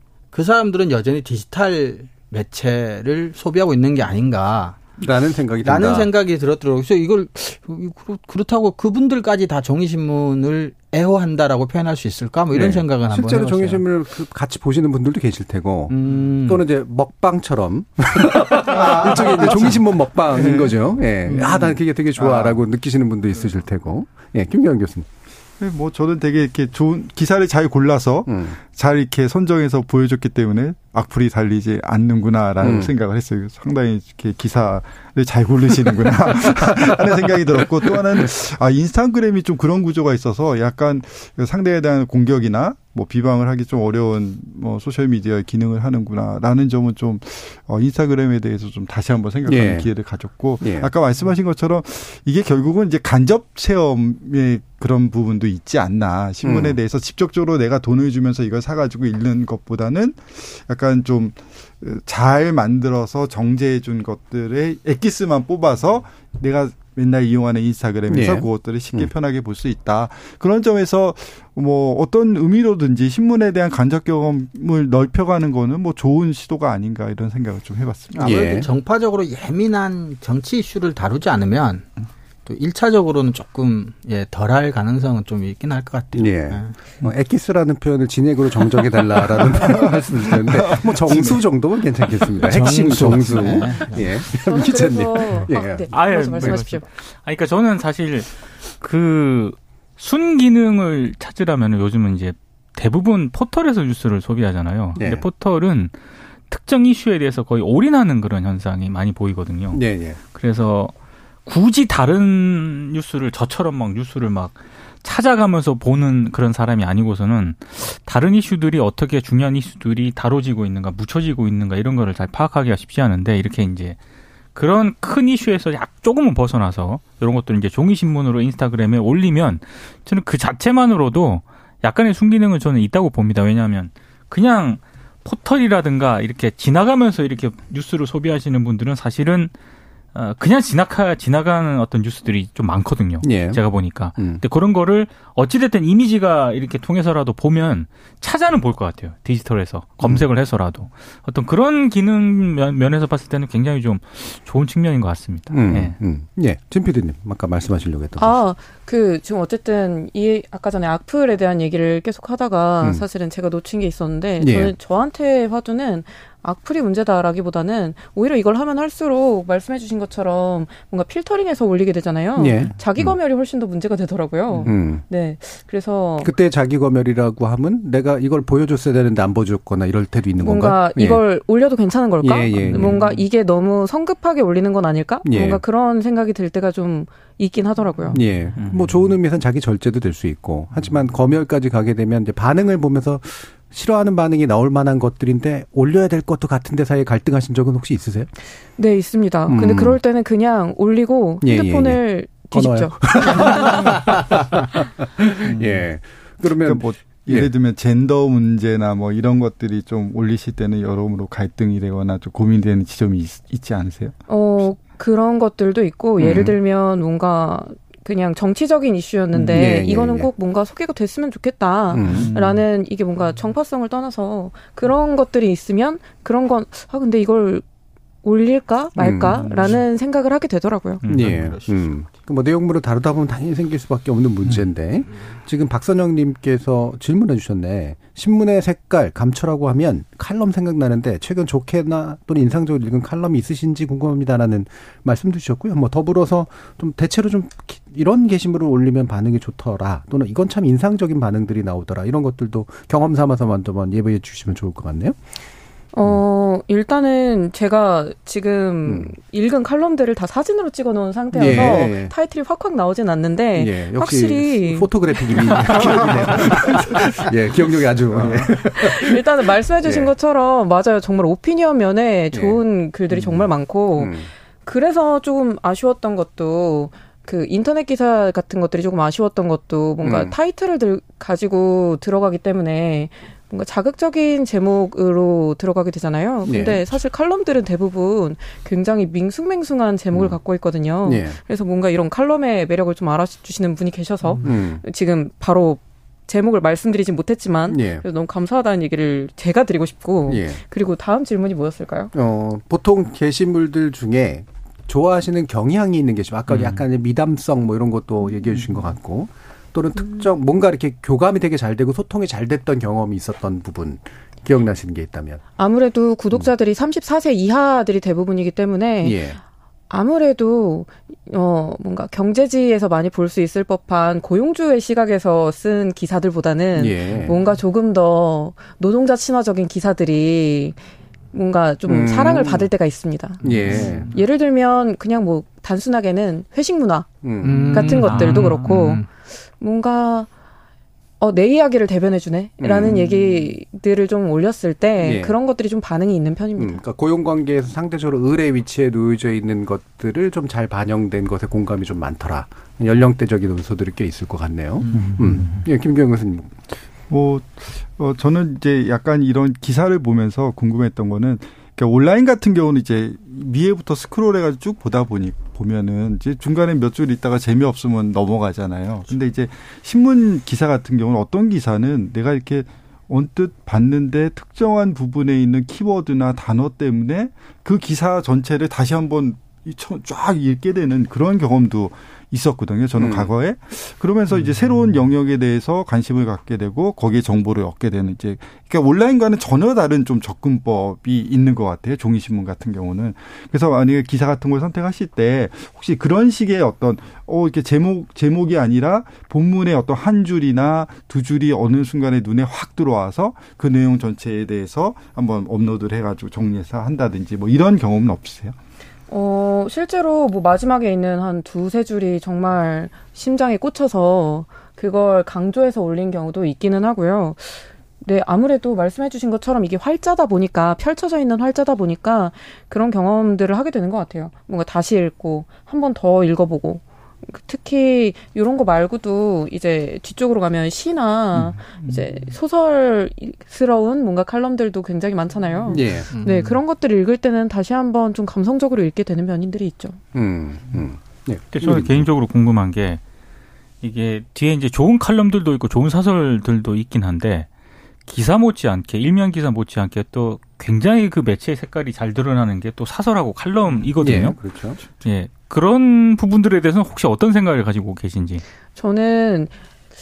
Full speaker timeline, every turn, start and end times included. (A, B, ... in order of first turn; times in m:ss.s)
0:00.3-0:04.8 A
0:05.0-0:06.1 B
0:05.6-0:13.8 A
0:12.5-0:25.1 B
0:15.9-0:16.6 A
0:18.7-0:19.8 C
0:18.7-0:19.2 A
0:20.3-0:22.6 C
0:25.6-1:18.4 C
0:28.3-0:28.6 B
0:32.6-0:32.9 B
0:49.4-0:49.9 B
0:50.6-0:50.9 B
0:56.4-0:56.8 B
1:08.1-1:09.1 B
1:18.1-1:21.8 A
1:18.2-1:18.7 B
1:22.4-1:26.8 A
1:26.1-1:36.6 B
1:30.5-1:31.4 C
1:32.4-1:34.2 A
1:34.4-1:36.8 D
1:35.9-1:45.9 E
1:45.0-1:45.2 B
1:46.5-1:49.8 E
1:49.7-1:50.2 B
1:50.3-1:50.9 E
1:51.4-2:04.0 E
2:04.5-2:19.5 E
2:20.1-2:36.0 E
2:23.2-2:23.6 B
2:24.1-2:24.4 B
2:35.5-2:38.4 B
2:38.2-2:56.3 D
2:44.4-2:44.7 B
2:52.4-2:53.1 B
2:54.6-2:55.0 B
2:56.2-3:01.2 B
3:00.4-3:08.2 D
3:02.2-3:03.0 B
3:05.2-3:05.6 B
3:08.1-3:18.3 B
3:18.8-3:23.7 D
3:19.5-3:20.0 B
3:21.4-3:24.5 B
3:25.2-3:27.5 B
3:25.4-3:25.8 C
3:26.4-3:34.1 C
3:34.3-3:47.6 D
3:36.2-3:36.5 B
3:39.3-3:40.3 B
3:41.9-3:42.3 B
3:42.0-3:42.6 C
3:48.2-3:51.0 D
3:49.0-3:49.5 B
3:49.4-3:49.8 C
3:51.0-3:51.5 E
3:51.1-4:15.2 B
3:51.2-3:52.1 A
4:15.9-4:26.1 D
4:18.8-4:19.1 B
4:21.3-4:22.1 B
4:23.5-4:29.2 B
4:28.1-4:28.5 C
4:28.5-5:02.1 D
4:29.8-4:30.1 B
4:32.3-4:34.3 B
4:40.0-4:40.3 B
4:46.4-4:46.8 B
4:51.0-4:51.4 B
4:54.4-4:54.8 B
4:57.7-4:58.0 B
5:00.3-5:00.6 B
5:02.1-5:15.4 B
5:15.6-5:19.2 D
5:19.0-5:19.4 B
5:19.9-5:30.8 D
5:26.8-5:27.4 B
5:31.3-5:37.1 D
5:31.8-5:32.7 B
5:33.4-5:34.1 B
5:33.7-5:34.0 A
5:37.2-5:37.9 B
5:37.4-5:39.0 A
5:37.7-5:39.0 D
5:38.0-5:38.7 E
5:39.6-5:40.3 D
5:41.2-5:46.8 D
5:42.6-5:43.4 B
5:45.0-5:45.4 B
5:46.6-5:56.6 B
5:57.1-6:48.6 C
6:23.0-6:23.3 B
6:49.1-7:20.0 D
7:15.7-7:16.1 B
7:16.1-7:16.6 A
7:20.1-7:22.1 B
7:21.5-7:23.0 E
7:23.8-7:27.5 E
7:28.1-7:34.4 E
7:34.0-7:34.8 B
7:34.9-7:38.4 E
7:38.8-7:39.5 D